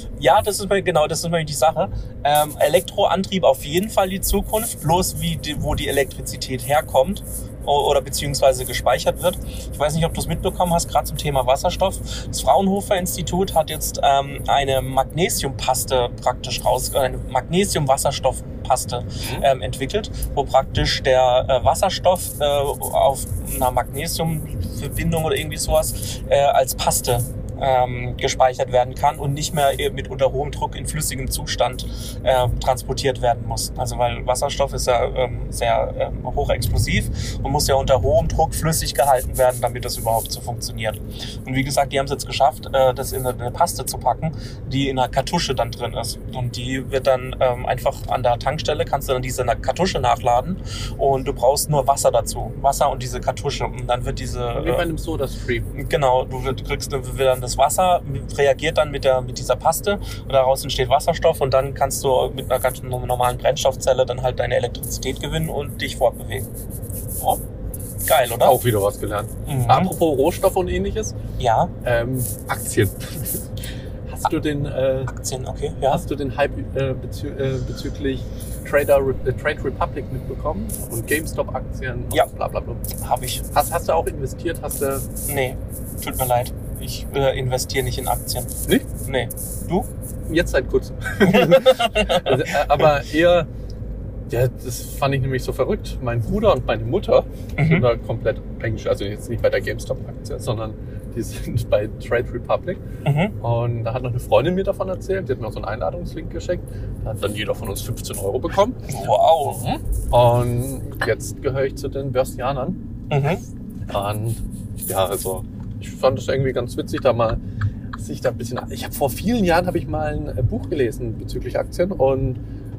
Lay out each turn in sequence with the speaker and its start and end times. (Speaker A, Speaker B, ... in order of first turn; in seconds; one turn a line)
Speaker A: 0.2-54.9
Speaker B: 19.2-19.5
Speaker B: 54.5-55.8
Speaker A: 55.8-66.5
Speaker A: 68.0-68.6
Speaker B: 68.4-71.2
Speaker A: 69.5-69.9
Speaker A: 71.4-71.7
Speaker B: 71.8-73.5
Speaker B: 74.1-75.1
Speaker A: 75.1-76.0
Speaker B: 75.9-82.8
Speaker A: 83.0-83.4
Speaker B: 83.5-85.1
Speaker A: 85.3-89.9
Speaker B: 90.3-93.5
Speaker A: 91.2-92.9
Speaker B: 94.3-102.8
Speaker A: 97.6-97.9
Speaker A: 103.0-103.3
Speaker B: 103.4-108.9
Speaker A: 108.9-109.6
Speaker B: 109.4-112.8
Speaker A: 113.1-113.4
Speaker B: 113.9-117.4
Speaker B: 118.0-122.4